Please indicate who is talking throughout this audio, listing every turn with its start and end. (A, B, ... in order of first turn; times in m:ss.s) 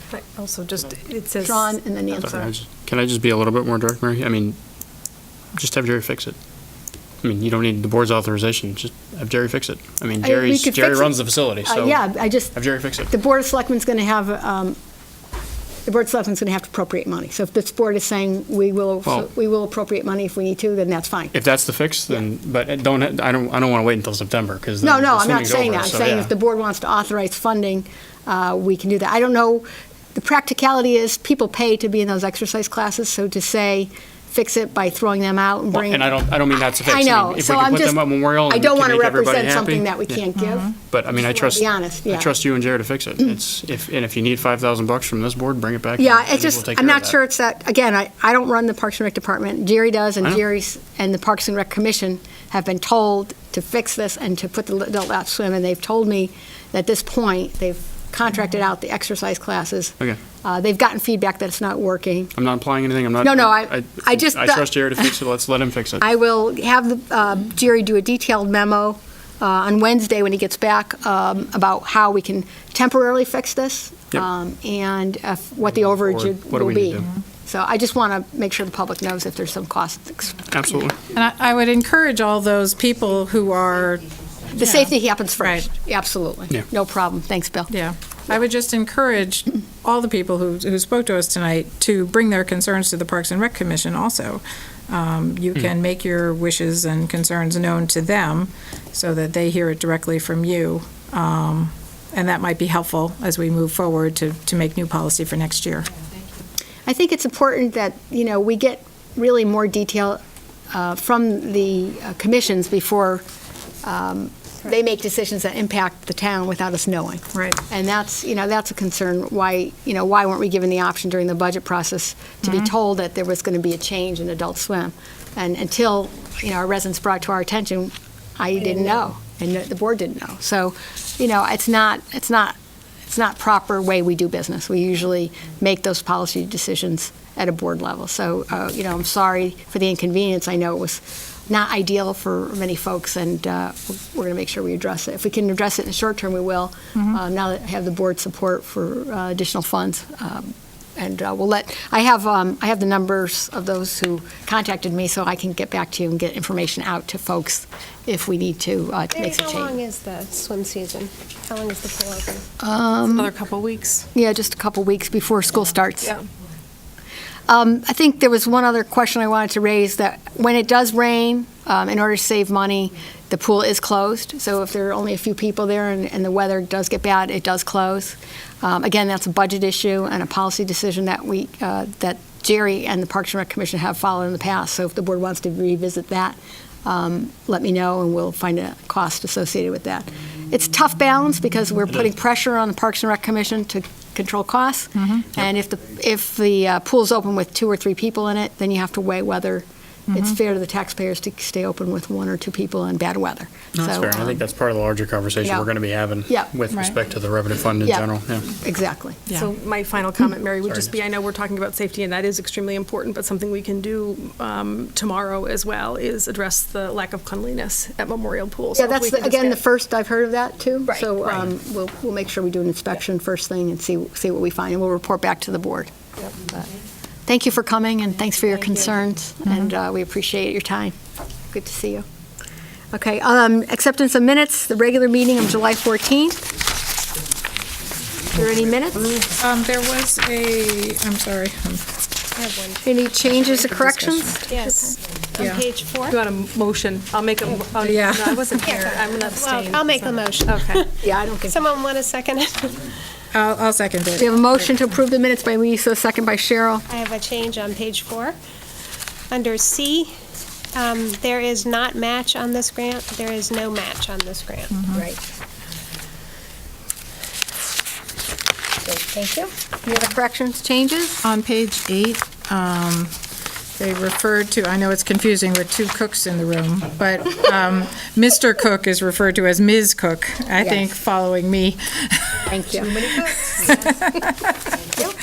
0:00.1-0:02.5 A
0:01.4-0:02.5 B
0:02.2-0:04.6 C
0:05.5-0:06.4 C
0:07.2-0:13.1 C
0:10.2-0:14.8 B
0:15.8-0:21.3 B
0:21.3-0:26.3 C
0:24.8-0:40.7 B
0:35.7-0:40.2 C
0:40.4-0:40.7 D
0:40.8-0:47.1 C
0:41.3-0:42.3 B
0:46.0-1:02.3 B
1:02.3-1:06.0 C
1:03.2-1:05.2 B
1:06.0-1:20.8 B
1:15.8-1:17.1 C
1:20.5-1:21.0 C
1:21.1-1:24.1 D
1:24.5-1:27.7 B
1:24.6-1:25.7 D
1:27.7-1:45.9 D
1:46.8-1:53.2 B
1:53.8-2:39.8 B
2:39.1-2:42.4 E
2:42.6-2:43.3 B
2:43.0-2:44.1 A
2:44.1-2:46.1 B
2:47.5-3:24.4 B
3:15.0-3:15.2 D
3:20.1-3:20.4 D
3:23.7-3:28.5 C
3:27.8-3:29.2 B
3:29.3-3:39.6 A
3:30.7-3:30.9 C
3:38.7-3:45.9 B
3:47.3-3:50.9 B
3:51.5-3:52.0 B
3:52.9-3:56.5 B
3:58.3-3:59.2 B
3:59.4-4:01.9 D
4:02.4-4:03.4 E
4:02.8-4:05.0 B
4:03.8-4:04.2 D
4:04.5-4:06.2 E
4:05.4-4:05.6 D
4:06.1-4:10.8 A
4:07.8-4:08.4 D
4:08.6-4:12.8 E
4:11.0-4:11.6 B
4:13.3-4:14.5 D
4:14.2-4:16.8 B
4:16.9-4:18.4 E
4:19.3-4:20.1 E
4:20.7-4:24.8 E
4:24.7-4:25.0 D
4:24.9-4:25.2 B
4:28.8-4:31.2 B
4:31.2-4:33.1 D
4:33.8-4:42.4 D
4:40.6-4:40.9 B
4:42.5-4:43.1 B
4:42.8-4:43.8 A
4:43.0-4:44.4 D